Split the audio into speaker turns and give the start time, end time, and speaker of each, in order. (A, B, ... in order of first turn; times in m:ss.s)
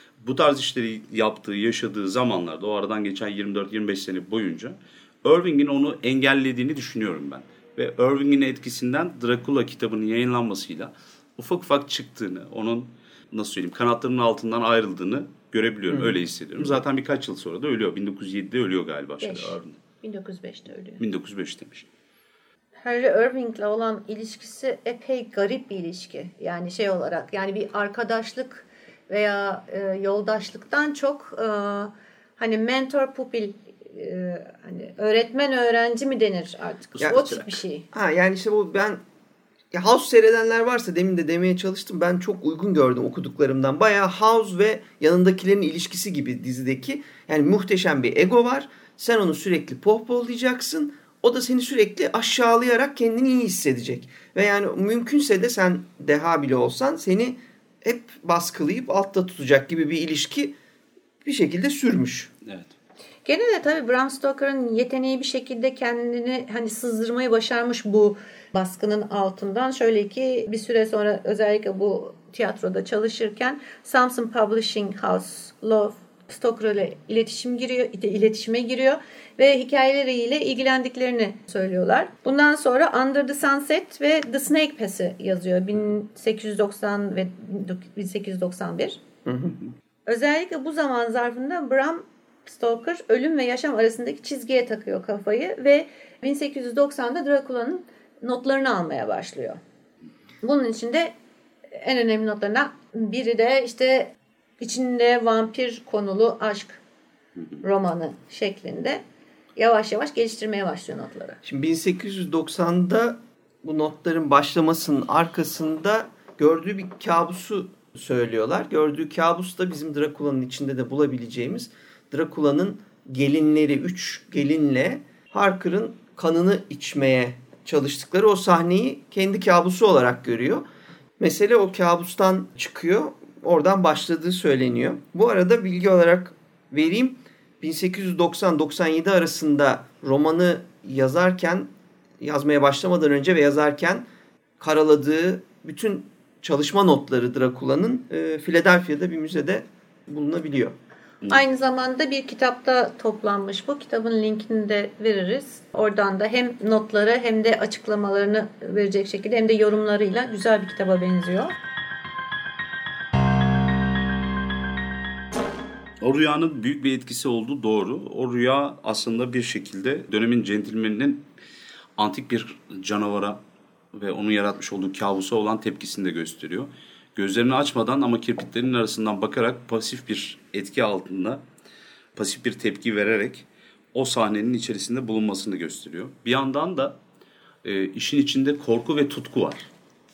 0:00.2-0:19.8 A
0:19.2-0:21.0 B
0:21.0-0:21.8 A
0:22.8-0:37.8 B
0:37.0-0:37.5 A
0:37.9-0:39.0 C
0:39.7-1:00.6 C
1:01.2-1:02.3 C
1:02.4-1:02.7 A
1:03.2-1:29.0 B
1:29.2-1:29.6 C
1:30.0-1:39.6 B
1:40.4-1:41.1 B
1:41.8-1:46.8 B
1:47.6-1:49.0 B
1:49.6-1:51.4 B
1:51.4-2:10.6 C
2:11.2-2:21.7 C
2:22.2-2:24.0 C
2:24.6-2:30.7 C
2:31.3-2:41.5 B
2:46.0-2:51.3 A
2:52.0-2:53.4 A
2:53.9-3:01.4 A
3:02.2-3:07.0 A
3:07.6-3:09.7 A